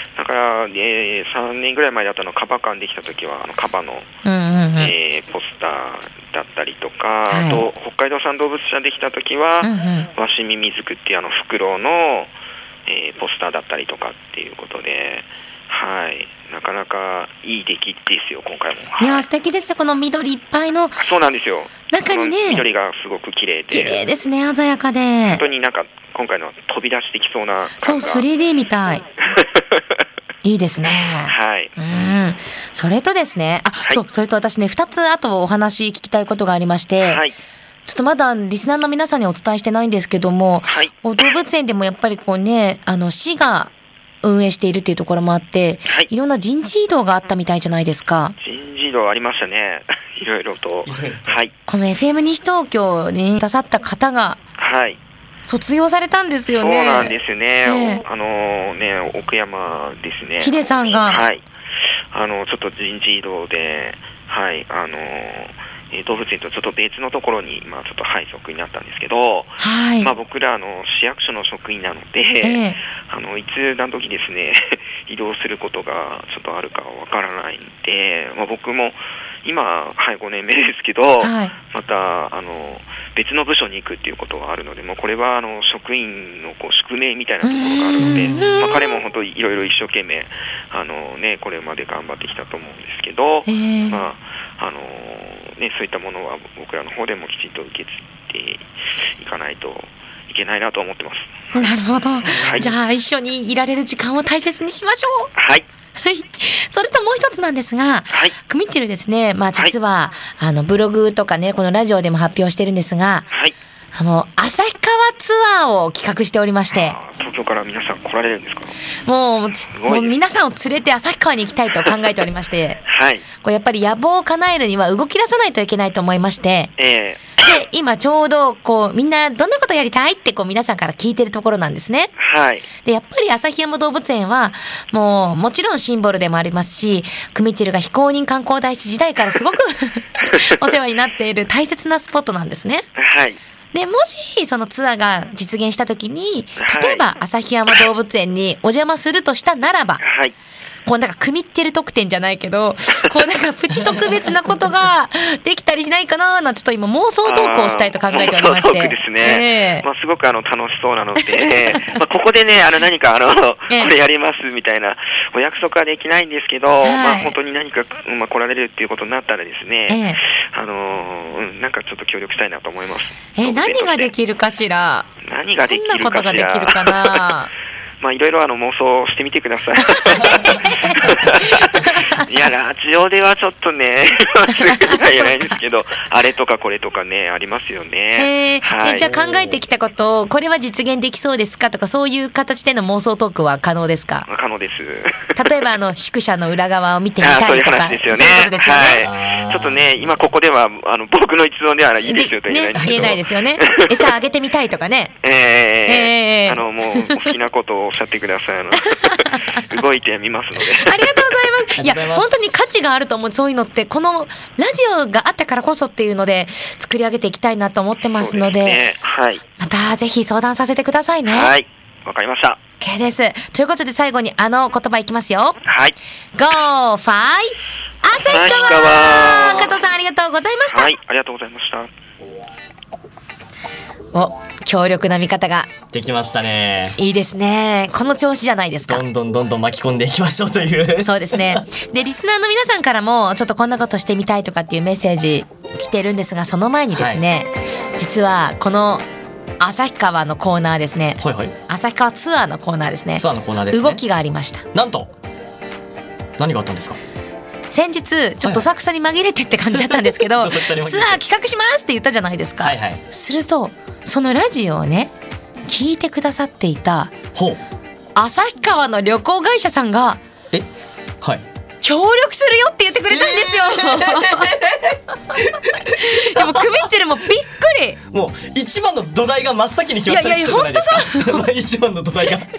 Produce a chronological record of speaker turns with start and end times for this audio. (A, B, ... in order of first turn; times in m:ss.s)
0:00.2-0:04.1 A
0:04.2-0:04.9 B
0:04.8-0:12.3 A
0:07.3-0:07.6 B
0:09.6-0:10.1 B
0:12.9-0:19.2 A
0:19.0-0:21.0 B
0:21.0-0:24.0 A
0:21.9-0:22.6 B
0:23.7-0:25.4 B
0:25.3-0:28.3 A
0:27.8-0:29.0 B
0:29.2-0:29.8 A
0:30.4-0:37.2 B
0:31.2-0:31.7 A
0:37.0-0:37.4 A
0:37.8-0:43.7 B
0:40.6-0:40.9 A
0:44.2-0:48.3 B
0:48.4-0:51.5 A
0:50.8-0:51.4 C
0:51.7-0:54.4 B
0:54.6-0:55.0 A
0:55.4-0:58.0 B
0:56.6-1:01.4 A
1:00.4-1:01.2 B
1:02.1-1:38.7 A
1:09.6-1:10.1 B
1:12.4-1:12.8 B
1:21.2-1:21.5 B
1:27.4-1:29.0 B
1:33.4-1:34.0 B
1:39.2-1:41.5 A
1:41.5-1:45.3 B
1:42.2-1:42.7 A
1:45.4-1:45.6 A
1:46.0-1:53.3 B
1:48.1-1:48.4 A
1:53.3-1:53.5 A
1:53.9-1:57.0 B
1:56.7-1:58.7 A
1:59.0-2:02.8 B
1:59.7-2:00.2 A
2:02.9-2:03.2 A
2:03.4-2:06.7 B
2:06.8-2:07.4 A
2:07.4-2:12.1 B
2:12.2-2:12.7 A
2:12.8-2:22.8 B
2:20.2-2:20.5 A
2:23.0-2:23.4 A
2:23.7-2:30.0 B
2:26.6-2:27.1 A
2:30.0-2:30.3 A
2:30.8-2:39.8 B
2:33.7-2:34.4 C
2:37.2-2:54.1 A
2:46.8-2:47.3 B
2:49.9-2:50.2 B
2:53.3-2:55.1 B
2:55.2-2:57.3 A
2:55.6-2:57.5 B
2:58.0-3:09.1 A
3:00.0-3:02.2 B
3:04.6-3:05.5 B
3:08.2-3:14.3 B
3:09.0-3:09.6 C
3:14.3-3:15.6 A
3:15.4-3:19.1 B
3:17.2-3:24.1 A
3:19.0-3:19.9 C
3:22.0-3:25.1 B
3:22.8-3:23.2 C
3:25.2-3:31.4 A
3:25.8-3:27.2 B
3:29.0-3:29.4 B
3:30.8-3:38.8 B
3:31.8-3:32.4 C
3:38.2-3:39.4 A
3:39.6-3:41.5 B
3:41.3-3:42.6 A
3:42.8-3:45.6 B
3:45.6-3:46.0 A
3:46.4-3:50.9 B
3:48.2-3:49.8 A
3:50.7-3:51.9 A
3:54.1-3:55.7 B
3:55.9-3:57.0 C
3:57.0-3:59.0 B
3:58.9-4:01.6 C
4:01.0-4:09.0 B
4:06.9-4:07.2 C
4:09.6-4:14.6 B
4:11.2-4:11.5 C
4:13.2-4:14.0 C
4:14.7-4:15.1 C
4:16.4-4:17.0 C
4:17.7-4:25.1 B
4:19.7-4:21.2 C
4:22.6-4:23.0 C
4:25.7-4:27.1 B
4:27.3-4:27.6 C
4:28.1-4:30.2 B
4:31.8-4:34.6 B
4:33.1-4:36.9 C
4:35.3-4:38.0 B
4:38.1-4:42.5 C
4:40.0-4:41.5 B